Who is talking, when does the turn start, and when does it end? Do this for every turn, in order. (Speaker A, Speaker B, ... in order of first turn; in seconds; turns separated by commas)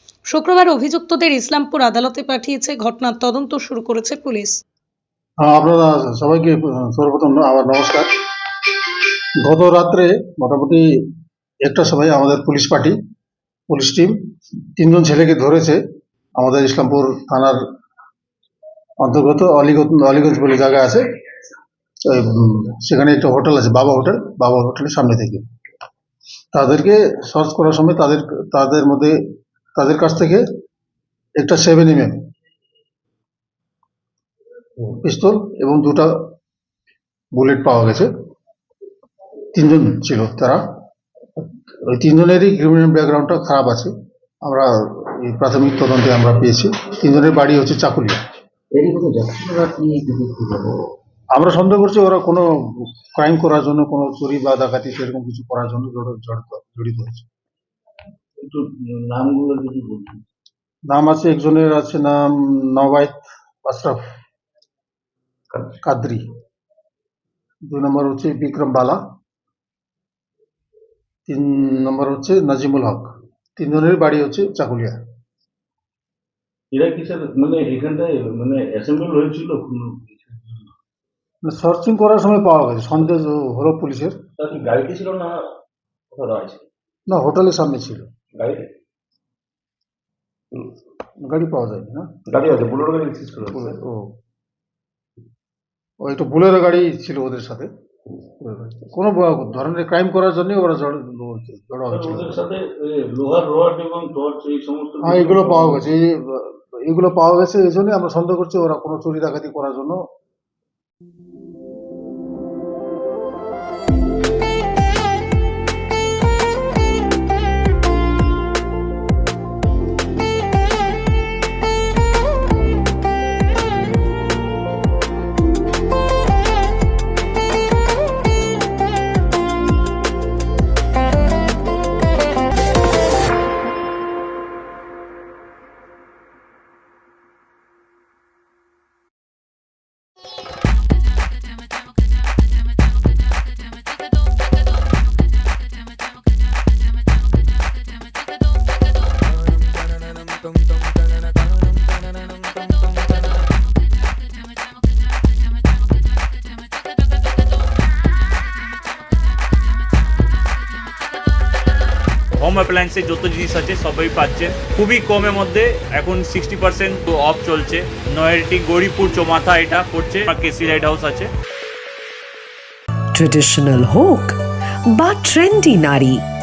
Speaker A: 0.3-4.6, Speaker B: 5.4-8.1, Speaker B: 9.4-10.8, Speaker B: 11.6-12.9, Speaker B: 13.7-14.2, Speaker B: 14.8-15.8, Speaker B: 16.4-17.6, Speaker B: 19.0-21.0, Speaker B: 22.1-25.4, Speaker B: 26.5-29.2, Speaker B: 29.7-30.4, Speaker B: 31.4-32.2, Speaker B: 34.8-36.1, Speaker B: 37.3-38.1, Speaker B: 39.5-40.6, Speaker B: 41.4-48.3, Speaker C: 48.7-50.9, Speaker B: 51.3-57.2, Speaker C: 58.4-60.2, Speaker B: 60.9-63.1, Speaker B: 63.6-64.0, Speaker B: 65.8-66.2, Speaker B: 67.7-69.0, Speaker B: 71.3-75.0, Speaker C: 76.7-80.7, Speaker B: 81.4-84.2, Speaker C: 84.4-85.4, Speaker C: 86.1-86.7, Speaker B: 87.1-88.1, Speaker C: 88.3-88.7, Speaker B: 91.2-92.1, Speaker C: 92.3-93.8, Speaker B: 93.5-94.1, Speaker B: 96.0-97.7, Speaker B: 98.4-102.4, Speaker C: 101.9-105.8, Speaker B: 105.0-110.0, Speaker D: 162.4-171.3, Speaker E: 173.2-174.3, Speaker E: 174.9-176.2